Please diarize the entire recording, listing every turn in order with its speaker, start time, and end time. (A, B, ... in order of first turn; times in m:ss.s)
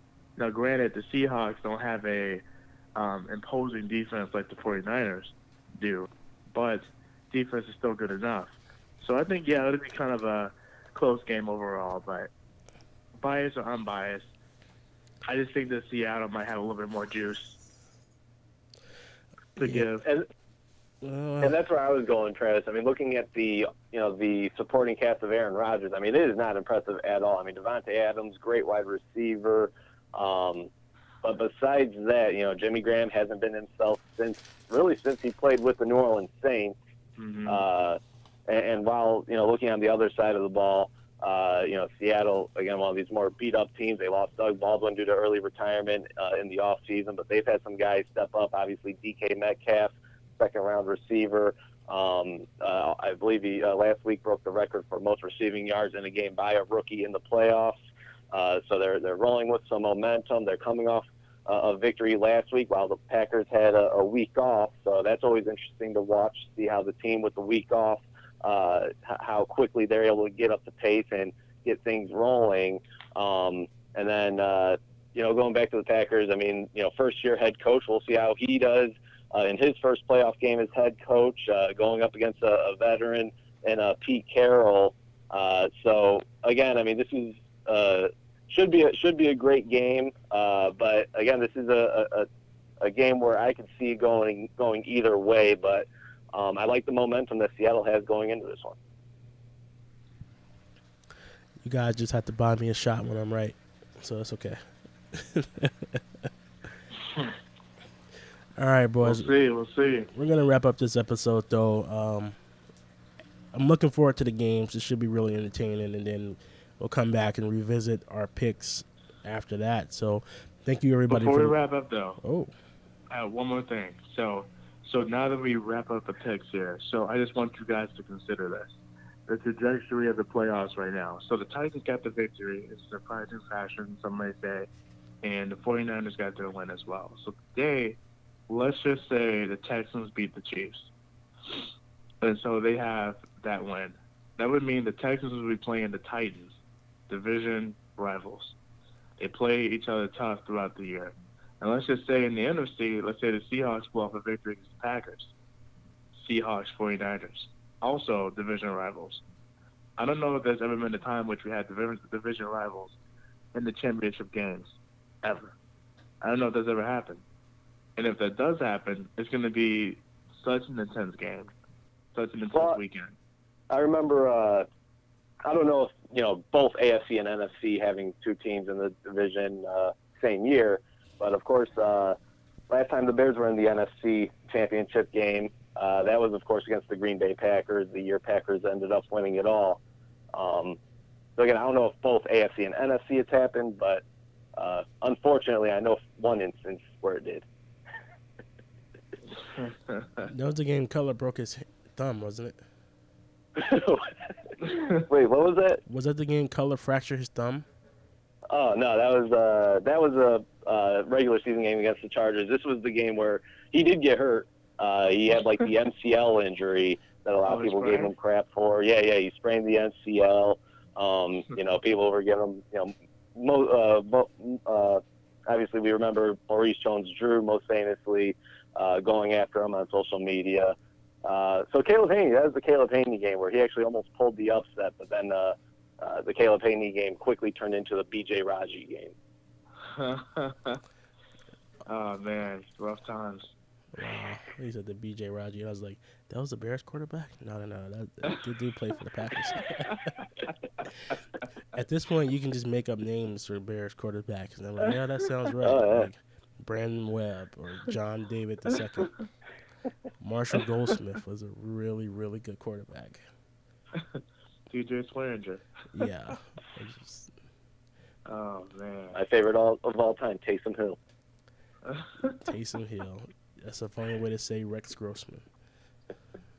0:00.4-0:02.4 A
0:03.0-0:12.3 A
0:13.2-0:14.2 A
0:15.3-0:17.6 A
0:19.6-0:20.1 A
0:19.6-0:19.9 B
0:21.0-0:21.5 B
0:21.4-0:30.7 C
0:31.2-0:36.8 C
0:37.2-0:37.6 A
0:37.5-0:57.8 C
0:58.3-1:32.3 C
1:32.8-1:38.8 C
1:41.6-1:44.6 B
1:45.1-1:46.0 B
1:48.6-1:49.3 B
1:49.0-1:50.1 A
1:50.1-1:52.4 B
1:53.5-2:01.6 B
2:01.1-2:02.2 A
2:02.2-2:02.5 B
2:03.1-2:08.7 A
2:09.3-2:14.7 A
2:15.2-2:18.0 A
2:18.5-2:20.9 A
2:22.2-2:26.6 A
2:27.1-2:28.6 A
2:29.2-2:35.3 A
2:36.2-2:39.2 A
2:40.0-2:43.0 A
2:43.5-2:45.5 A
2:46.2-2:47.2 A
2:48.0-2:51.5 A
2:52.2-2:53.2 A
2:52.5-2:52.8 C
2:53.7-2:54.7 C
2:55.4-3:02.2 C
3:02.7-3:09.8 C
3:10.3-3:10.8 C
3:11.4-3:14.0 C
3:14.6-3:17.5 C
3:19.6-3:20.3 A
3:20.3-3:22.6 B
3:23.6-3:25.8 C
3:25.9-3:27.7 B
3:28.5-3:59.1 C
3:37.5-3:38.1 A
3:59.8-4:00.8 A
4:01.9-4:03.5 A
4:04.0-4:10.0 B
4:11.7-4:19.2 B
4:15.6-4:16.1 C
4:20.2-4:23.2 B
4:23.9-4:25.6 A
4:25.9-4:27.3 B
4:28.2-4:29.2 A
4:29.1-4:31.0 C
4:31.9-4:32.3 A
4:32.4-4:35.5 B